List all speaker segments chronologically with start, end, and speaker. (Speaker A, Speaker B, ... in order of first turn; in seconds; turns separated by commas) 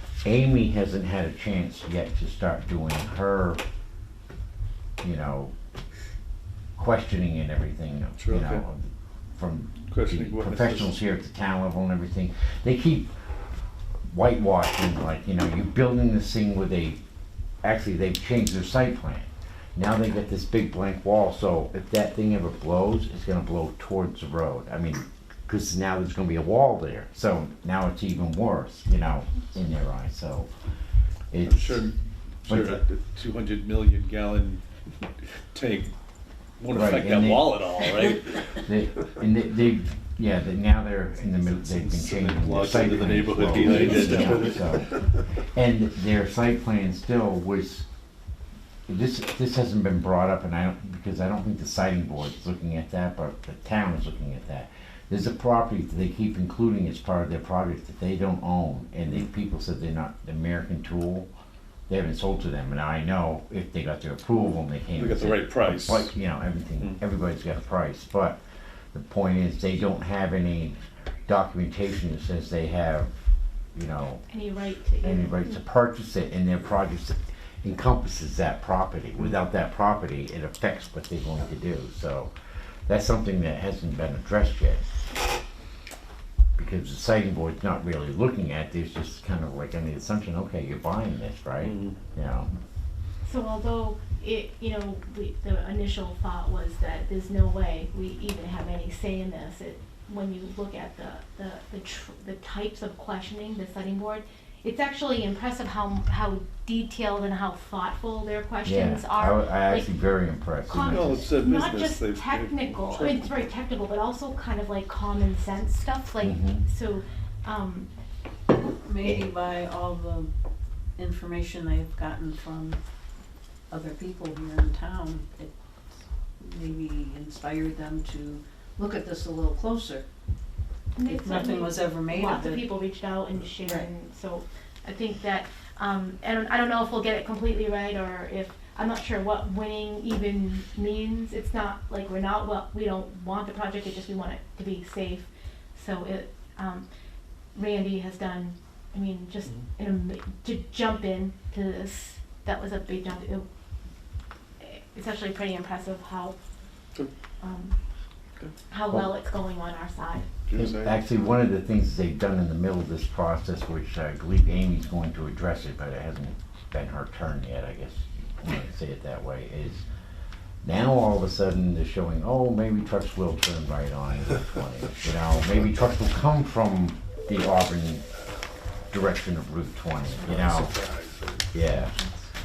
Speaker A: 0.2-3.6, Speaker A: 5.0-5.5, Speaker A: 6.8-13.1, Speaker B: 8.2-8.6, Speaker B: 9.9-10.9, Speaker A: 14.1-17.0, Speaker A: 17.6-30.5, Speaker A: 31.3-31.9, Speaker B: 31.4-34.6, Speaker A: 32.5-32.8, Speaker B: 35.5-35.9, Speaker B: 36.6-38.4, Speaker A: 36.7-45.0, Speaker B: 41.6-45.0, Speaker A: 45.5-47.9, Speaker A: 48.9-61.3, Speaker A: 61.9-68.4, Speaker B: 65.0-66.1, Speaker A: 68.9-73.1, Speaker A: 73.8-74.2, Speaker C: 74.3-75.4, Speaker A: 75.0-82.3, Speaker A: 82.9-85.0, Speaker A: 86.6-92.5, Speaker B: 91.6-92.0, Speaker C: 93.2-109.9, Speaker A: 108.6-111.3, Speaker C: 110.6-117.9, Speaker B: 110.9-113.5, Speaker A: 116.2-116.6, Speaker D: 118.8-120.3, Speaker D: 121.0-122.8, Speaker D: 123.7-125.5, Speaker D: 126.4-130.0, Speaker C: 131.0-146.8, Speaker D: 131.1-132.7, Speaker C: 147.5-153.5, Speaker C: 154.6-156.4, Speaker C: 157.4-157.8, Speaker C: 158.7-160.3, Speaker B: 160.5-161.0, Speaker A: 160.6-169.8, Speaker A: 170.6-178.1, Speaker A: 178.9-180.7, Speaker B: 180.2-181.3, Speaker A: 181.5-181.9